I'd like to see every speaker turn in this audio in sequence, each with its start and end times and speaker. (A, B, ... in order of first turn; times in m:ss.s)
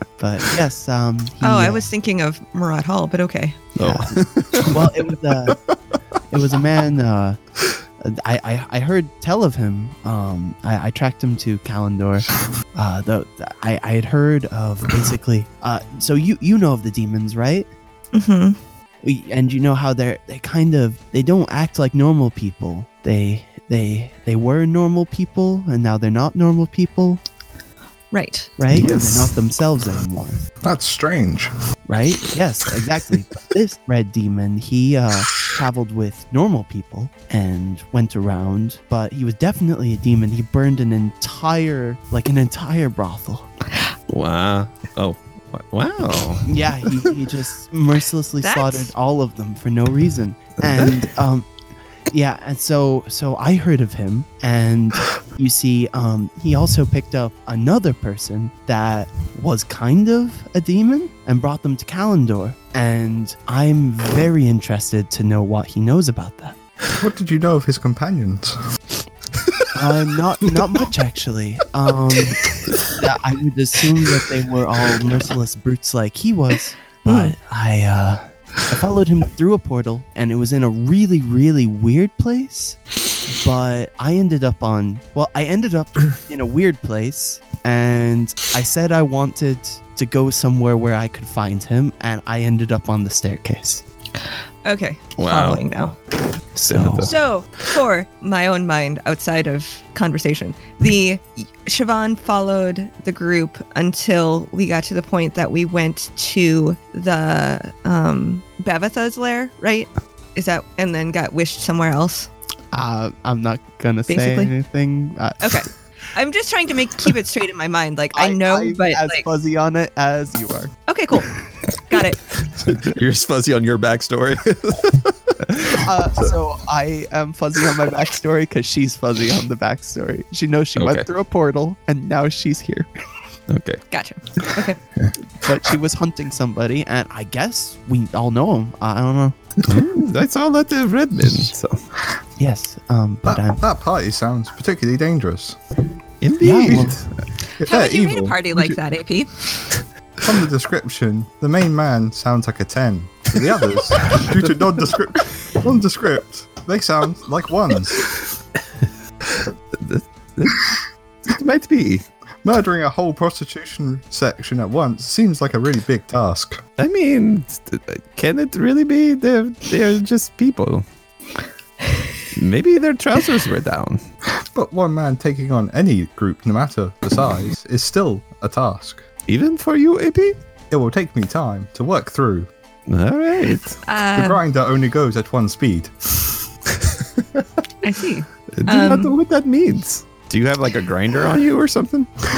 0:00.2-0:01.9 A
0:01.4-0:03.6 B
0:03.8-0:05.6 A
0:03.8-0:05.8 C
0:06.3-0:07.4 A
0:08.0-0:17.7 A
0:18.1-0:18.6 B
0:19.0-0:27.2 A
0:28.1-0:28.5 B
0:28.6-0:30.4 A
0:28.7-0:29.4 C
0:30.6-0:31.5 D
0:31.9-0:43.5 A
0:44.1-0:46.5 C
0:46.5-0:51.5 A
0:48.4-0:48.9 B
0:50.7-0:51.0 C
0:52.1-1:06.6 A
1:07.0-1:08.6 D
1:09.7-1:33.8 A
1:17.1-1:17.3 B
1:34.6-1:36.0 B
1:35.2-1:35.8 C
1:36.6-1:37.1 A
1:36.7-1:37.1 C
1:37.0-1:52.3 B
1:52.7-1:55.6 A
1:54.1-1:54.5 B
1:55.4-1:59.3 B
1:58.1-2:00.7 A
2:00.9-2:02.2 B
2:02.5-2:05.8 C
2:05.7-2:12.9 A
2:10.8-2:11.1 C
2:13.5-2:13.8 C
2:13.9-2:14.8 B
2:15.4-2:19.4 A
2:19.6-2:21.8 C
2:22.4-2:23.6 A
2:23.2-2:25.6 D
2:26.2-2:27.1 C
2:26.4-2:27.0 A
2:26.7-2:26.9 D
2:27.6-2:29.7 B
2:27.6-2:28.8 D
2:30.2-2:38.1 D
2:39.7-2:40.7 C
2:41.2-2:42.1 C
2:42.4-2:46.6 D
2:46.8-2:50.8 C
2:52.4-2:54.0 C
2:54.5-2:59.1 D
2:59.3-3:00.4 C
3:00.7-3:02.5 D
3:02.9-3:03.8 C
3:03.9-3:04.4 B
3:04.2-3:06.4 D
3:06.8-3:07.4 C
3:07.8-3:09.1 B
3:08.5-3:12.1 C